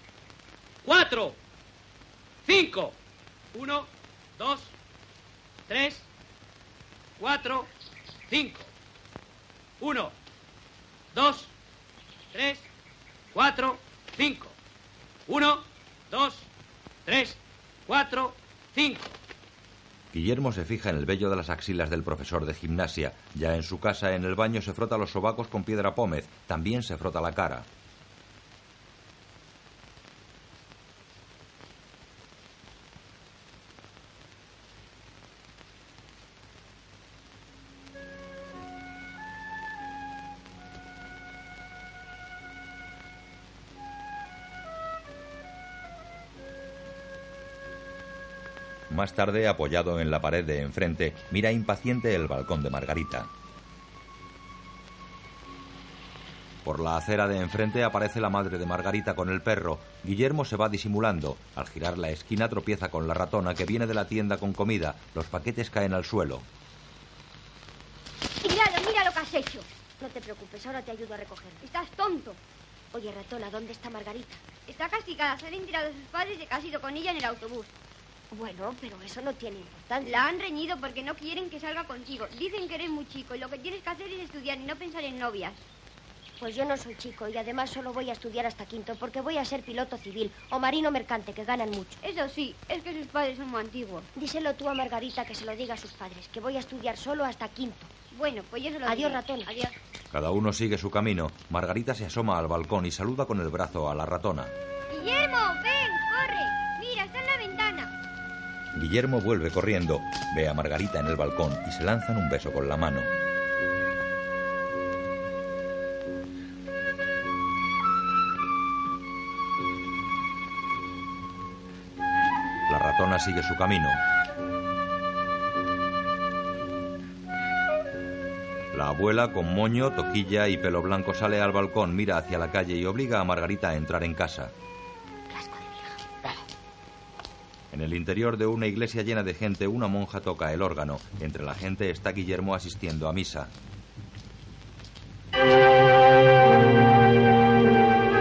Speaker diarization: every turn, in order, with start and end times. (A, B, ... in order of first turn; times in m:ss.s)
0:00.8-0:01.4 A
0:02.4-0:03.0 A
0:03.5-0:04.7 A
0:05.7-0:06.0 A
0:07.2-0:07.7 A
0:08.3-0:08.7 A
0:09.8-0:10.1 A
0:11.1-0:11.5 A
0:12.3-0:12.7 A
0:13.3-0:14.5 A
0:15.3-0:16.5 A
0:17.0-0:19.1 A
0:20.1-0:27.7 B
0:48.9-0:53.3 B
0:56.6-1:06.4 B
1:08.4-1:09.7 C
1:10.0-1:11.6 D
1:11.6-1:12.4 C
1:12.9-1:14.4 D
1:14.7-1:17.7 C
1:18.3-1:20.3 D
1:20.0-1:25.6 C
1:26.4-1:32.0 D
1:32.0-1:34.1 C
1:34.1-1:37.9 D
1:38.1-1:39.7 C
1:38.8-1:39.5 D
1:40.1-1:44.5 B
1:44.9-1:47.9 C
1:48.7-1:53.1 B
2:02.7-2:04.0 B
2:08.7-2:14.5 B
2:15.3-2:16.3 D
2:17.7-2:23.5 B